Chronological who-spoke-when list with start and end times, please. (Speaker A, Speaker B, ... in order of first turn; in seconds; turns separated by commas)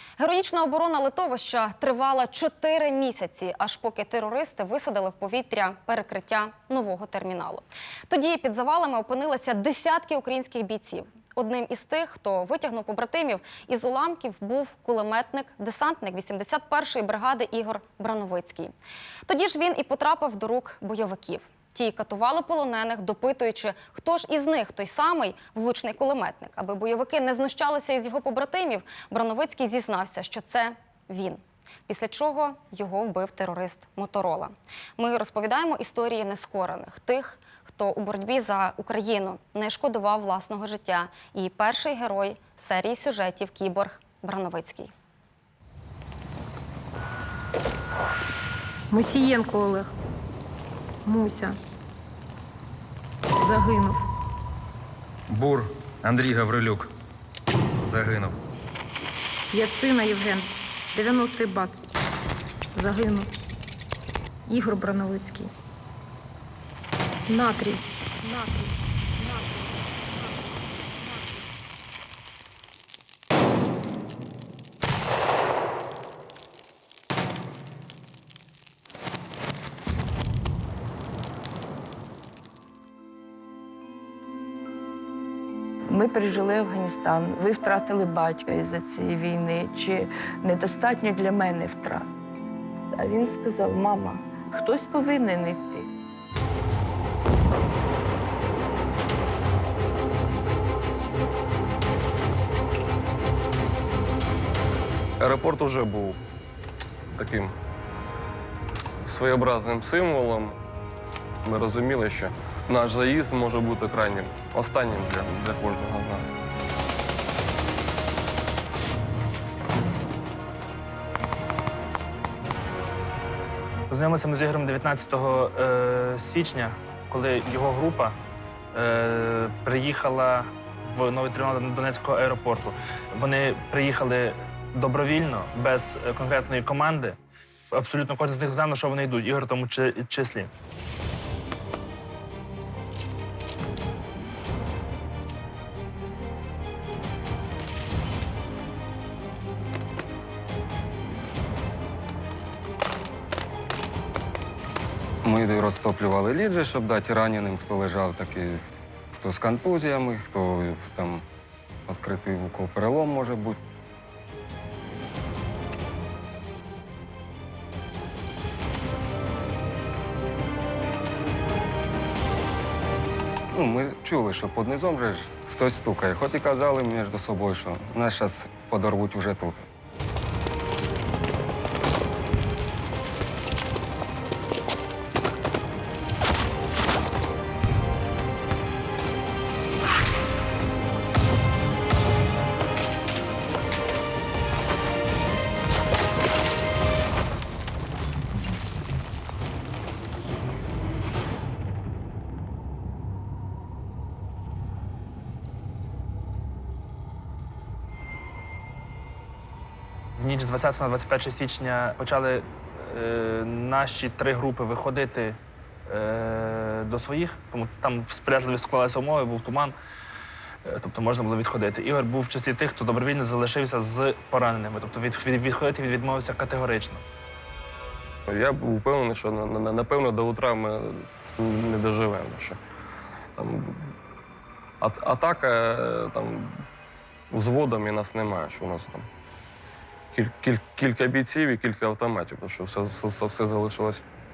Speaker A: 0.2-18.7, Speaker A: 19.3-44.9, Speaker B: 48.9-49.9, Speaker B: 51.0-51.6, Speaker B: 53.4-54.1, Speaker C: 55.3-56.9, Speaker C: 57.9-58.4, Speaker B: 59.5-61.8, Speaker B: 62.7-63.3, Speaker B: 64.5-65.5, Speaker B: 67.3-69.5, Speaker D: 85.9-92.1, Speaker D: 92.9-95.9, Speaker E: 105.2-106.2, Speaker E: 107.1-107.5, Speaker E: 109.0-110.6, Speaker E: 111.5-116.3, Speaker F: 123.9-128.2, Speaker F: 128.7-137.2, Speaker F: 137.7-140.5, Speaker G: 155.2-158.6, Speaker G: 159.1-161.2, Speaker G: 161.9-163.6, Speaker G: 173.5-179.7, Speaker F: 210.2-219.8, Speaker F: 220.7-227.0, Speaker E: 228.3-232.6, Speaker E: 233.4-233.9, Speaker E: 234.8-236.6, Speaker E: 237.3-239.1, Speaker E: 240.1-244.0